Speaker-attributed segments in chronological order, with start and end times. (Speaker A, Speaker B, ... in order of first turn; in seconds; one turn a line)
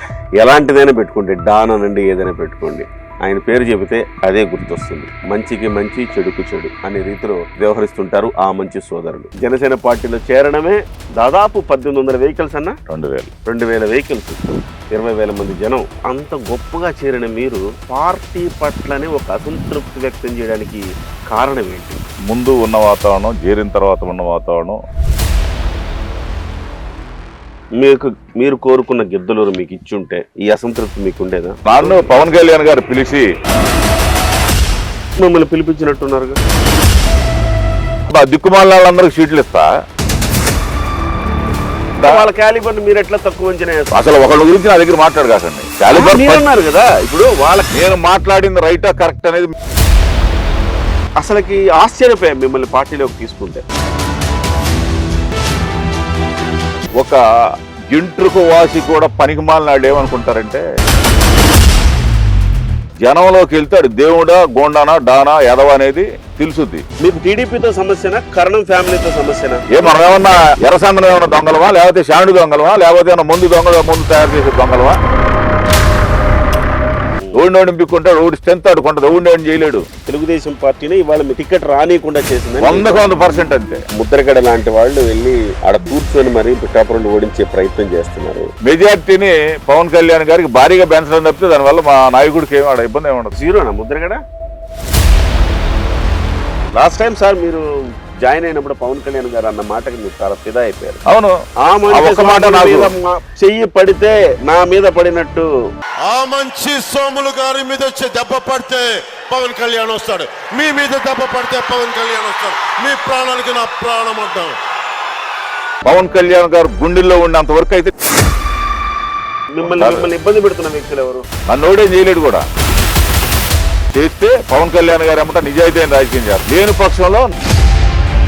Speaker A: 0.4-12.8
Speaker B: 12.9-13.3
Speaker A: 13.4-22.0
Speaker B: 22.3-24.8
Speaker A: 27.8-32.1
Speaker B: 31.6-33.2
Speaker A: 35.2-36.4
Speaker B: 38.1-39.7
Speaker B: 42.0-42.2
Speaker A: 42.0-44.0
Speaker B: 43.9-46.4
Speaker A: 45.9-47.7
Speaker B: 47.7-49.5
Speaker A: 51.2-53.6
Speaker B: 57.9-60.6
Speaker B: 63.0-66.8
Speaker A: 67.0-69.8
Speaker B: 69.7-75.0
Speaker B: 77.3-79.8
Speaker A: 80.0-83.1
Speaker B: 82.6-83.8
Speaker A: 83.9-88.5
Speaker B: 88.6-93.3
Speaker A: 93.3-94.2
Speaker A: 96.8-97.6
Speaker A: 98.2-101.0
Speaker B: 101.1-101.3
Speaker A: 101.6-105.5
Speaker B: 101.9-102.9
Speaker C: 106.0-114.6
Speaker B: 115.8-117.9
Speaker A: 119.5-121.2
Speaker B: 119.6-120.1
Speaker B: 121.5-122.4
Speaker B: 123.9-127.3